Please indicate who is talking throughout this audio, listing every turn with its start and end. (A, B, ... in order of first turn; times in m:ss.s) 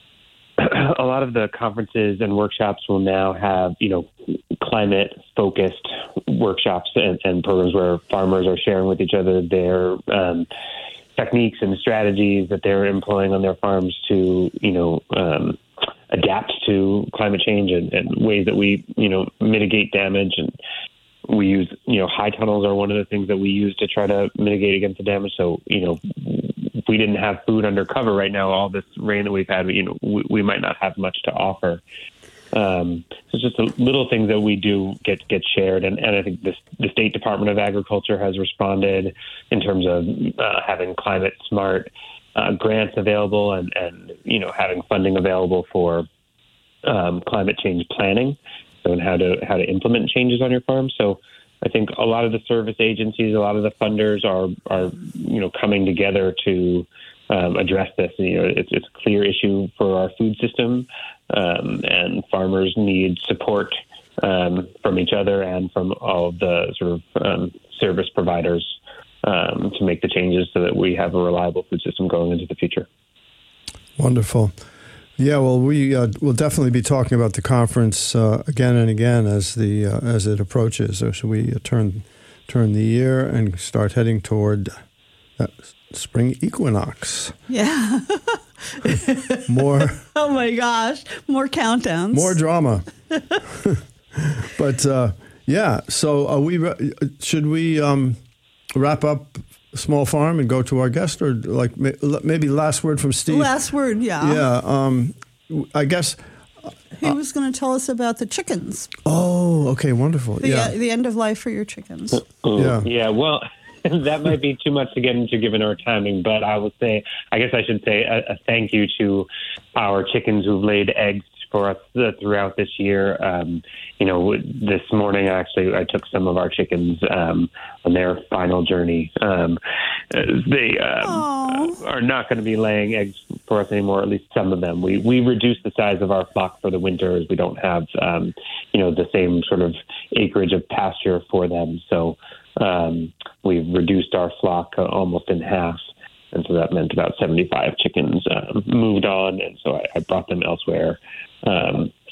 0:00.6-0:10.5 A
0:11.2-0:15.6 A
0:16.1-0:20.6 A
0:21.3-0:31.8 A
0:32.5-0:46.1 A
0:46.8-1:12.9 A
1:14.0-1:14.6 B
1:15.2-1:24.7 B
1:25.4-1:27.3 B
1:27.5-1:29.5 C
1:29.5-1:30.0 B
1:30.1-1:32.4 C
1:32.1-1:32.9 B
1:33.4-1:38.2 B
1:38.7-1:43.5 B
1:43.3-1:44.4 C
1:44.2-1:46.2 B
1:47.0-1:48.9 C
1:49.1-1:50.7 B
1:50.4-1:52.2 C
1:52.4-2:09.6 A
1:52.6-1:52.9 B
2:10.1-2:25.8 A
2:11.0-2:11.8 C
2:26.3-2:31.9 A